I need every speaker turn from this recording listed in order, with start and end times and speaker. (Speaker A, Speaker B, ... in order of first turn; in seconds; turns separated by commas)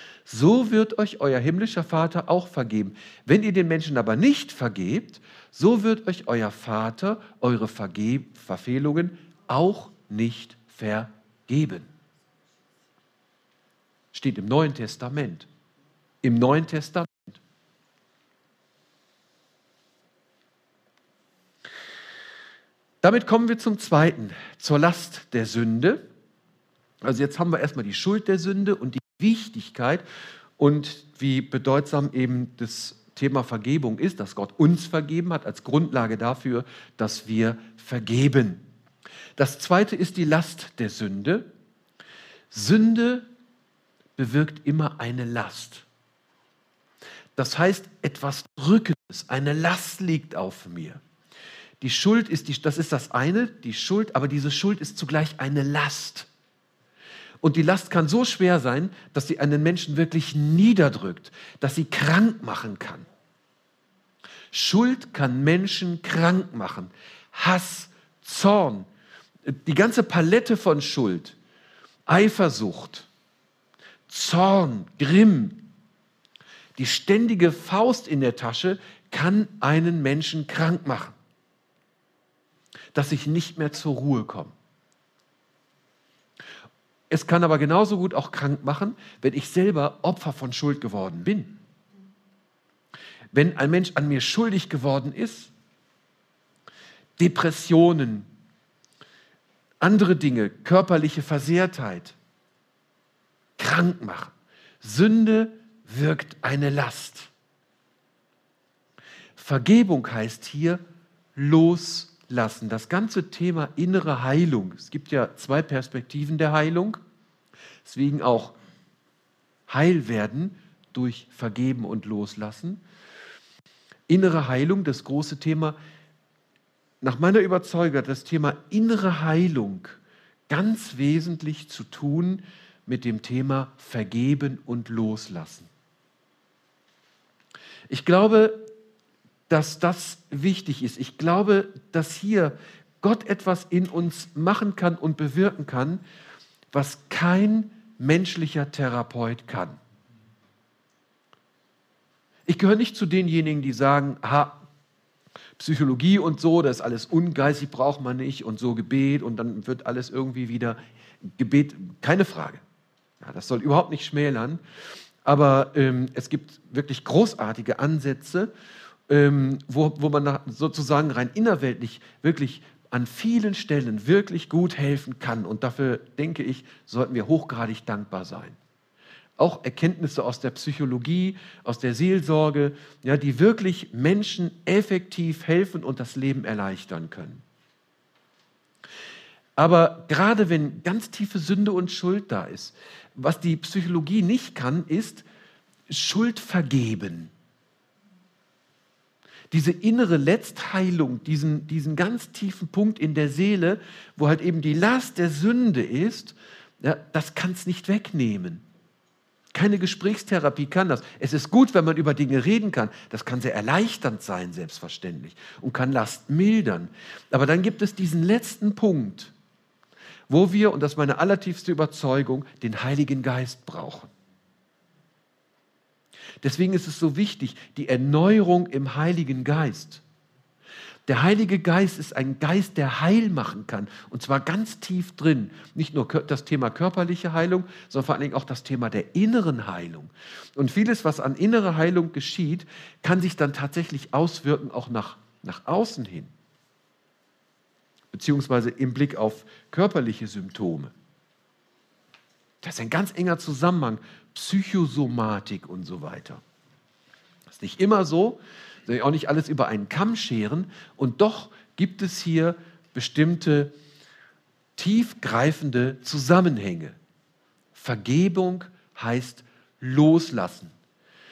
Speaker A: 0.3-11.9, Speaker A: 14.1-15.5, Speaker A: 16.2-17.4, Speaker A: 23.0-26.0, Speaker A: 27.0-30.0, Speaker A: 30.6-38.6, Speaker A: 39.4-41.5, Speaker A: 42.5-43.3, Speaker A: 44.2-45.9, Speaker A: 47.4-51.0, Speaker A: 51.8-56.3, Speaker A: 57.4-63.1, Speaker A: 64.5-68.9, Speaker A: 69.5-71.4, Speaker A: 72.1-73.1, Speaker A: 74.1-75.7, Speaker A: 76.8-81.2, Speaker A: 82.9-84.5, Speaker A: 87.1-91.6, Speaker A: 93.3-95.5, Speaker A: 97.2-98.3, Speaker A: 99.8-102.2, Speaker A: 103.6-107.3, Speaker A: 109.4-110.8, Speaker A: 111.3-117.0, Speaker A: 117.8-118.5, Speaker A: 119.7-122.8, Speaker A: 124.1-125.8, Speaker A: 127.0-135.7, Speaker A: 137.9-138.7, Speaker A: 139.5-146.0, Speaker A: 146.7-149.8, Speaker A: 152.5-154.6, Speaker A: 155.6-160.8, Speaker A: 161.4-162.6, Speaker A: 163.2-164.6, Speaker A: 165.2-168.5, Speaker A: 169.1-178.6, Speaker A: 179.4-187.4, Speaker A: 189.6-195.2, Speaker A: 195.9-197.3, Speaker A: 199.5-208.6, Speaker A: 209.5-219.3, Speaker A: 220.3-224.1, Speaker A: 226.4-230.0, Speaker A: 231.1-246.3, Speaker A: 248.1-250.9, Speaker A: 252.6-256.4, Speaker A: 257.5-263.7, Speaker A: 264.8-267.0, Speaker A: 267.7-270.7